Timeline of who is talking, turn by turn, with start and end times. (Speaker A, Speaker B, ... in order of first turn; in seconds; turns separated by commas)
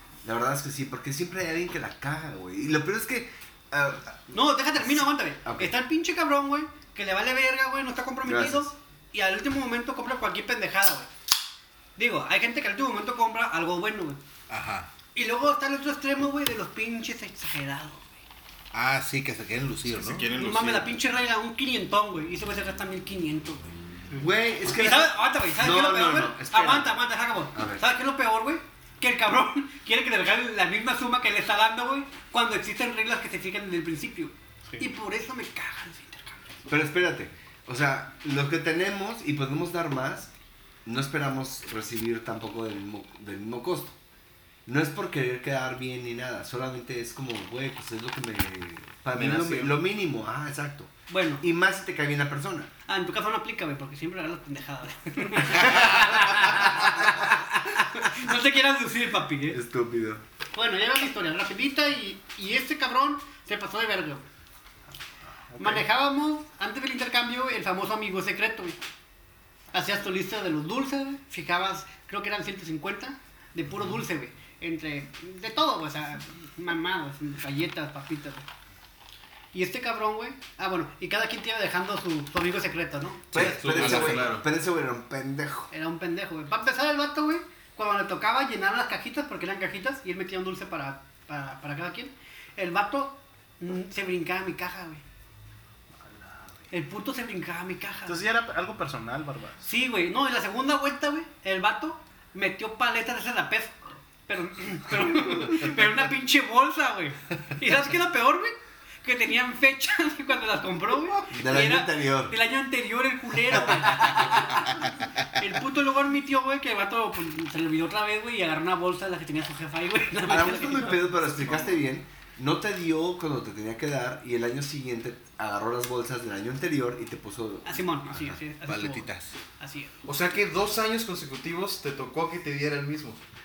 Speaker A: 0.2-4.9, Speaker B: 4.3-11.1, Speaker A: 5.4-5.8, Speaker A: 8.2-8.8, Speaker B: 12.0-14.2, Speaker C: 14.5-14.9, Speaker B: 15.1-18.1, Speaker C: 18.7-20.3, Speaker D: 19.9-20.9, Speaker B: 20.4-23.7, Speaker A: 24.2-27.0, Speaker B: 24.6-36.4, Speaker A: 27.5-27.8, Speaker A: 36.7-40.3, Speaker A: 40.9-44.0, Speaker A: 44.7-52.7, Speaker D: 49.1-49.8, Speaker B: 51.1-51.5, Speaker B: 52.9-59.6, Speaker A: 59.5-60.2, Speaker B: 60.5-64.3, Speaker E: 65.5-65.8, Speaker B: 65.6-68.8, Speaker B: 69.7-78.5, Speaker B: 79.5-83.3, Speaker C: 83.3-84.4, Speaker A: 83.3-85.7, Speaker D: 83.4-84.4, Speaker B: 85.7-95.0, Speaker B: 96.7-98.2, Speaker E: 98.1-99.7, Speaker B: 99.6-121.3, Speaker A: 111.3-112.3, Speaker A: 120.3-128.4, Speaker B: 127.7-129.9, Speaker C: 128.7-129.4, Speaker D: 130.1-133.2